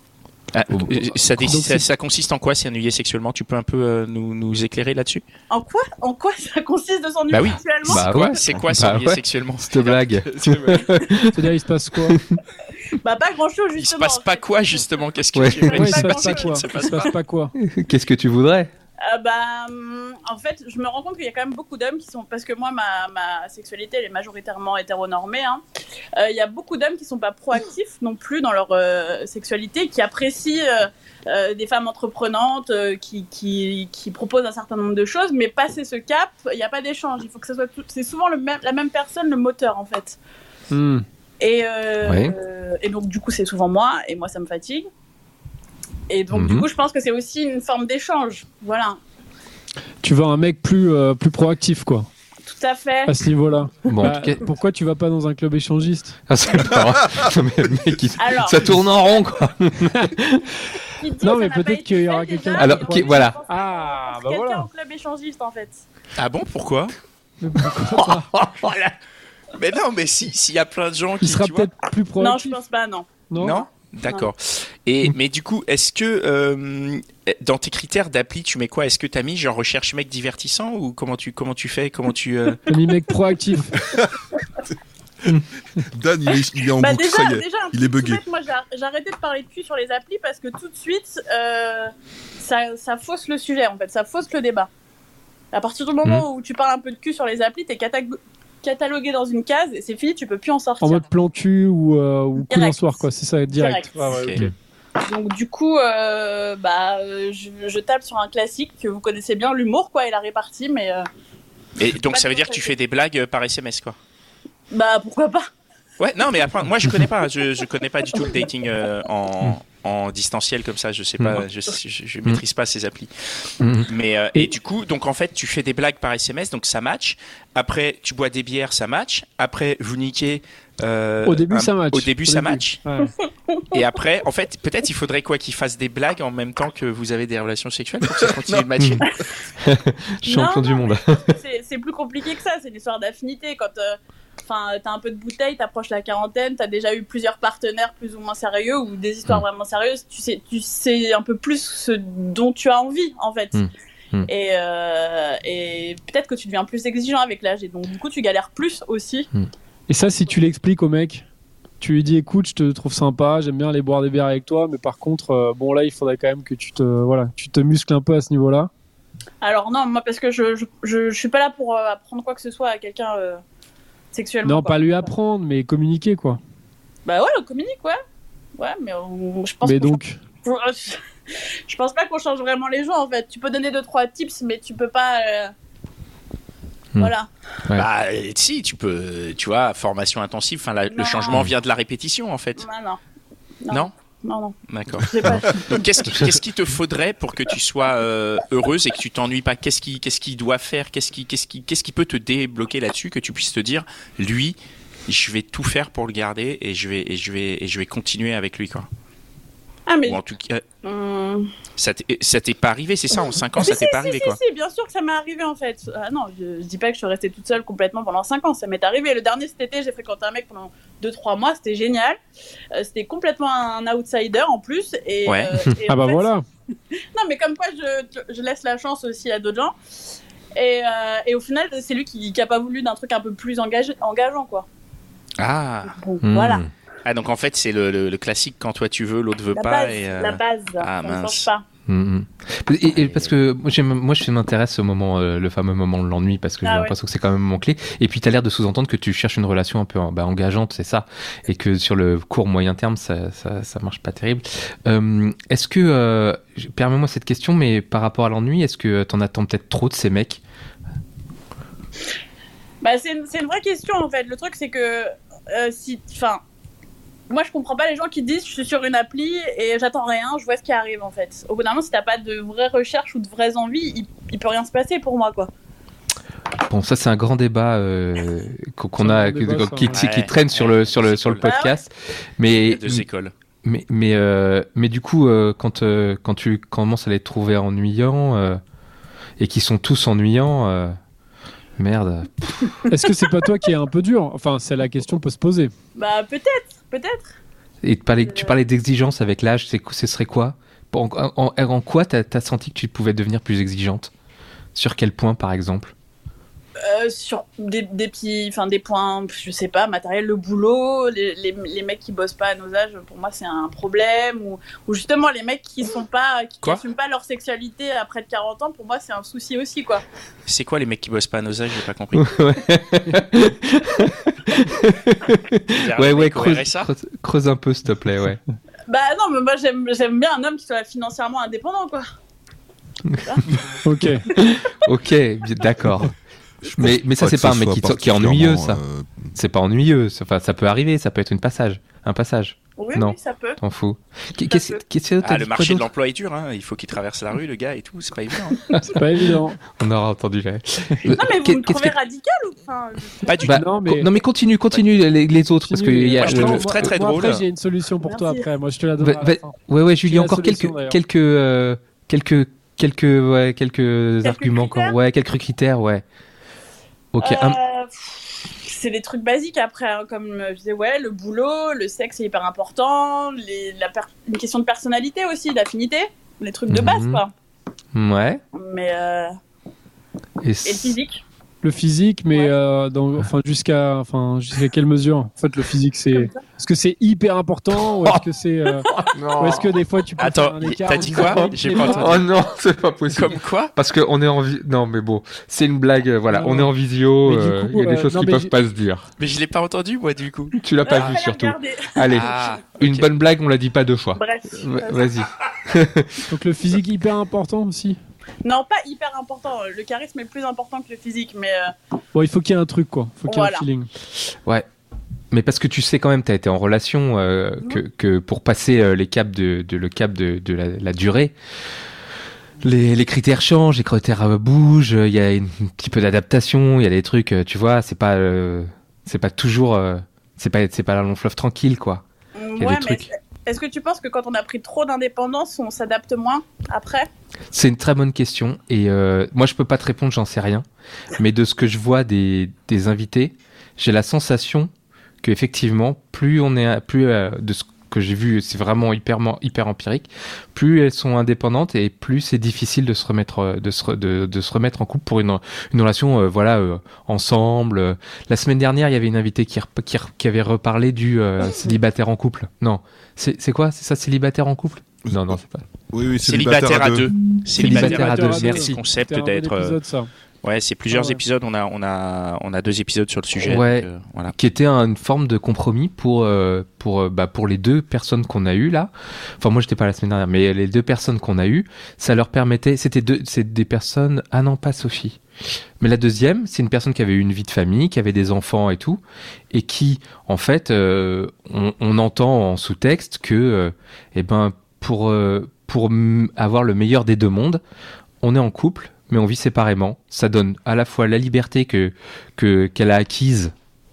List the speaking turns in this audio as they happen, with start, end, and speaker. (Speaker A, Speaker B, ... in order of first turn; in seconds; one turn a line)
Speaker A: 0.5-5.2
Speaker B: 0.7-1.2
Speaker C: 1.4-1.9
Speaker D: 5.5-8.4
Speaker A: 7.3-10.9
Speaker B: 7.9-11.5
Speaker C: 11.3-12.2
Speaker B: 12.1-12.3
Speaker D: 12.9-17.1
Speaker A: 13.8-17.1
Speaker B: 15.3-15.9
Speaker C: 15.7-17.5
Speaker B: 17.6-18.7
Speaker D: 19.0-25.6
Speaker D: 26.2-40.2
Speaker C: 40.7-41.0
Speaker D: 41.4-44.9
Speaker B: 42.0-42.4
Speaker D: 46.1-49.0
Speaker B: 46.3-46.7
Speaker C: 50.0-52.1
Speaker D: 52.5-53.2
Speaker C: 53.1-56.2
Speaker B: 53.9-54.4
Speaker B: 56.3-60.5
Speaker D: 58.2-58.7
Speaker D: 61.0-65.8
Speaker C: 61.2-64.7
Speaker B: 62.6-63.4
Speaker A: 66.2-67.0
Speaker C: 67.4-68.3
Speaker A: 68.5-68.9
Speaker A: 69.5-71.7
Speaker C: 71.2-72.6
Speaker D: 72.2-73.3
Speaker C: 73.3-73.6
Speaker A: 73.4-82.6
Speaker C: 82.7-83.7
Speaker E: 85.8-88.2
Speaker D: 86.3-94.7
Speaker D: 95.5-101.0
Speaker C: 100.8-104.5
Speaker D: 102.5-103.9
Speaker A: 104.1-104.5
Speaker D: 105.0-111.0
Speaker A: 111.8-114.0
Speaker D: 112.1-112.7
Speaker D: 114.7-115.4
Speaker A: 116.0-123.1
Speaker B: 123.6-123.9
Speaker A: 123.8-132.8
Speaker C: 131.2-133.1
Speaker D: 133.1-133.7
Speaker A: 133.7-139.1
Speaker E: 138.4-138.7
Speaker B: 139.6-141.4
Speaker D: 140.2-153.7
Speaker B: 153.5-154.3
Speaker D: 154.3-159.3
Speaker C: 159.9-161.2
Speaker C: 161.8-168.7
Speaker D: 169.4-173.4
Speaker D: 174.1-175.1
Speaker C: 174.4-176.4
Speaker D: 177.1-178.0
Speaker D: 178.6-185.5
Speaker C: 179.6-180.2
Speaker D: 187.0-187.3
Speaker A: 187.8-192.7
Speaker D: 191.0-191.4
Speaker D: 192.6-193.0
Speaker D: 193.6-194.6
Speaker A: 194.7-208.9
Speaker D: 195.1-196.1
Speaker D: 209.9-210.2
Speaker A: 210.1-210.6
Speaker D: 210.8-211.5
Speaker A: 211.8-214.4
Speaker D: 213.6-222.2
Speaker D: 222.8-226.3
Speaker C: 225.9-226.4
Speaker D: 227.1-229.8
Speaker D: 230.6-234.7
Speaker A: 235.4-235.9
Speaker D: 235.8-236.7
Speaker B: 236.2-236.7
Speaker A: 237.0-241.5
Speaker D: 239.5-241.7
Speaker B: 241.9-260.4
Speaker A: 242.9-243.3
Speaker D: 246.6-246.9
Speaker D: 262.8-266.4
Speaker D: 267.3-275.5
Speaker B: 276.7-283.1
Speaker C: 279.0-280.0
Speaker A: 279.9-281.5
Speaker D: 281.4-281.8
Speaker A: 282.5-283.3
Speaker B: 283.6-288.6
Speaker B: 289.4-290.9
Speaker B: 291.8-292.7
Speaker C: 292.9-295.7
Speaker D: 295.9-297.4
Speaker B: 297.8-304.1
Speaker D: 298.2-298.6
Speaker B: 304.8-305.9
Speaker D: 306.8-320.0
Speaker A: 320.5-322.3
Speaker B: 322.1-328.4
Speaker A: 325.7-326.9
Speaker D: 328.9-332.1
Speaker B: 333.1-333.4
Speaker C: 333.8-334.2
Speaker D: 334.3-334.6
Speaker B: 334.3-336.1
Speaker E: 336.7-339.4
Speaker B: 336.8-338.8
Speaker B: 339.4-345.9
Speaker D: 342.8-343.6
Speaker D: 344.5-344.8
Speaker A: 345.2-348.6
Speaker B: 348.7-349.0
Speaker C: 348.9-349.6
Speaker B: 349.7-351.9
Speaker D: 351.1-353.6
Speaker A: 353.2-353.6
Speaker B: 353.4-357.3
Speaker C: 353.4-354.1
Speaker C: 355.6-361.0
Speaker A: 356.0-357.4
Speaker D: 358.0-358.5
Speaker B: 359.0-366.0
Speaker D: 364.2-365.0
Speaker B: 367.1-367.6
Speaker D: 367.2-377.3
Speaker B: 376.7-377.2
Speaker B: 377.9-378.4
Speaker D: 378.6-379.3
Speaker B: 380.4-381.0
Speaker D: 380.6-381.2
Speaker C: 381.6-392.3
Speaker D: 386.1-386.4
Speaker B: 388.9-389.7
Speaker A: 390.2-392.3
Speaker B: 391.1-399.1
Speaker A: 393.1-393.7
Speaker C: 396.3-398.5
Speaker A: 399.2-400.6
Speaker B: 400.5-406.3
Speaker D: 400.8-402.1
Speaker A: 402.1-403.1
Speaker D: 404.1-405.2
Speaker C: 406.3-408.0
Speaker D: 408.4-411.7
Speaker C: 412.1-413.9
Speaker D: 413.2-413.7
Speaker B: 415.3-421.3
Speaker B: 422.6-432.0
Speaker D: 432.4-437.1
Speaker B: 432.6-433.0
Speaker B: 437.5-444.7
Speaker B: 445.2-465.6
Speaker E: 465.1-467.1
Speaker A: 466.3-469.8
Speaker B: 467.6-468.8
Speaker C: 467.6-470.1
Speaker A: 470.4-474.4
Speaker C: 470.9-471.2
Speaker B: 473.4-485.2
Speaker B: 485.8-497.6
Speaker B: 498.2-503.5